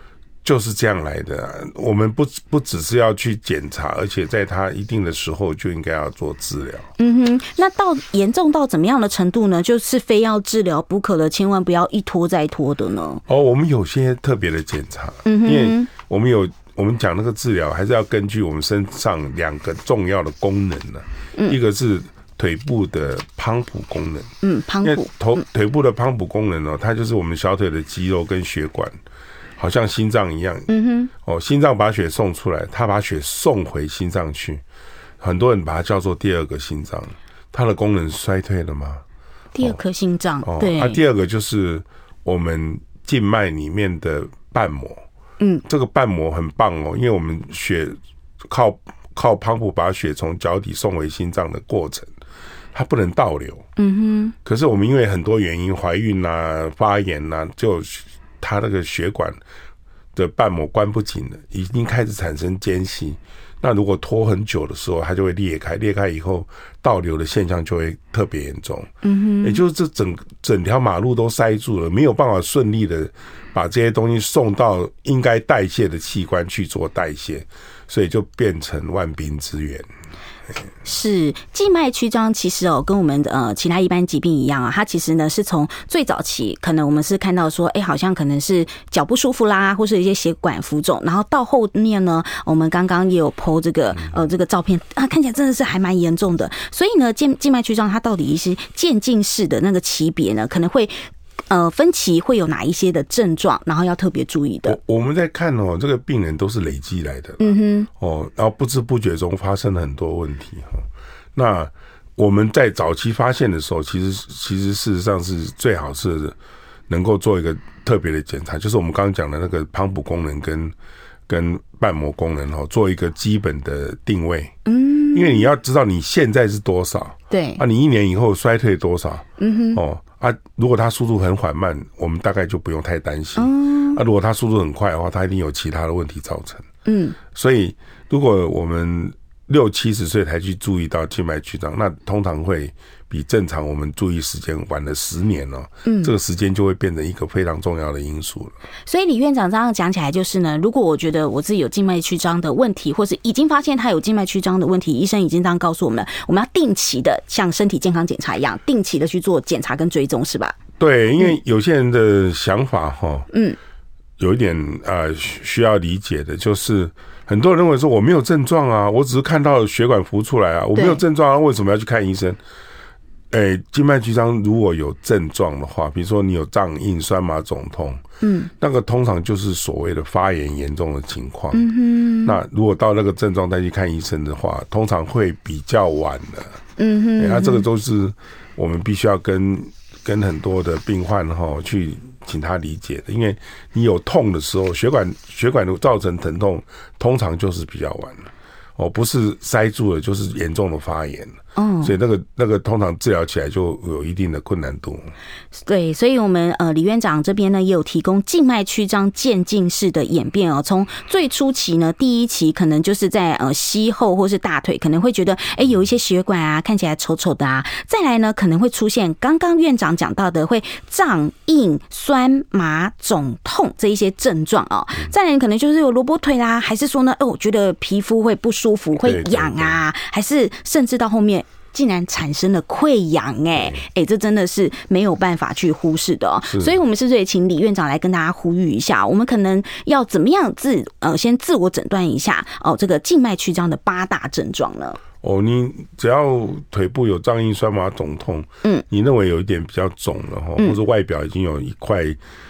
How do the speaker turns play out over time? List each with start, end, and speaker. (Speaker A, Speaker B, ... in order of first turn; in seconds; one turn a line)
Speaker A: 0.4-6.9
Speaker B: 7.0-13.2
Speaker A: 13.3-24.3
Speaker B: 15.3-15.9
Speaker B: 24.4-25.4
Speaker A: 24.8-29.0
Speaker A: 29.6-34.6
Speaker B: 30.7-31.1
Speaker A: 35.2-39.0
Speaker B: 39.5-41.0
Speaker A: 40.4-45.0
Speaker A: 45.7-52.1
Speaker A: 52.7-53.6
Speaker B: 53.8-54.4
Speaker A: 54.5-59.4
Speaker A: 60.1-68.9
Speaker B: 69.0-69.6
Speaker A: 69.4-79.9
Speaker B: 80.8-101.0
Speaker B: 101.5-104.8
Speaker A: 104.7-116.4
Speaker B: 107.4-107.9
Speaker A: 116.9-120.7
Speaker A: 121.3-124.5
Speaker B: 124.7-125.5
Speaker A: 125.1-136.7
Speaker B: 127.3-127.6
Speaker B: 129.4-129.8
Speaker B: 133.4-134.0
Speaker B: 136.9-137.2
Speaker A: 137.3-148.5
Speaker B: 145.9-146.1
Speaker B: 148.9-160.6
Speaker A: 160.8-163.3
Speaker B: 163.3-163.6
Speaker A: 164.2-172.4
Speaker B: 170.8-171.0
Speaker A: 173.3-178.0
Speaker B: 178.2-178.5
Speaker A: 178.6-181.7
Speaker B: 181.5-182.4
Speaker A: 182.2-186.6
Speaker B: 186.8-187.7
Speaker A: 187.2-205.1
Speaker B: 201.6-201.9
Speaker B: 205.6-245.0
Speaker A: 229.0-229.8
Speaker A: 245.2-252.2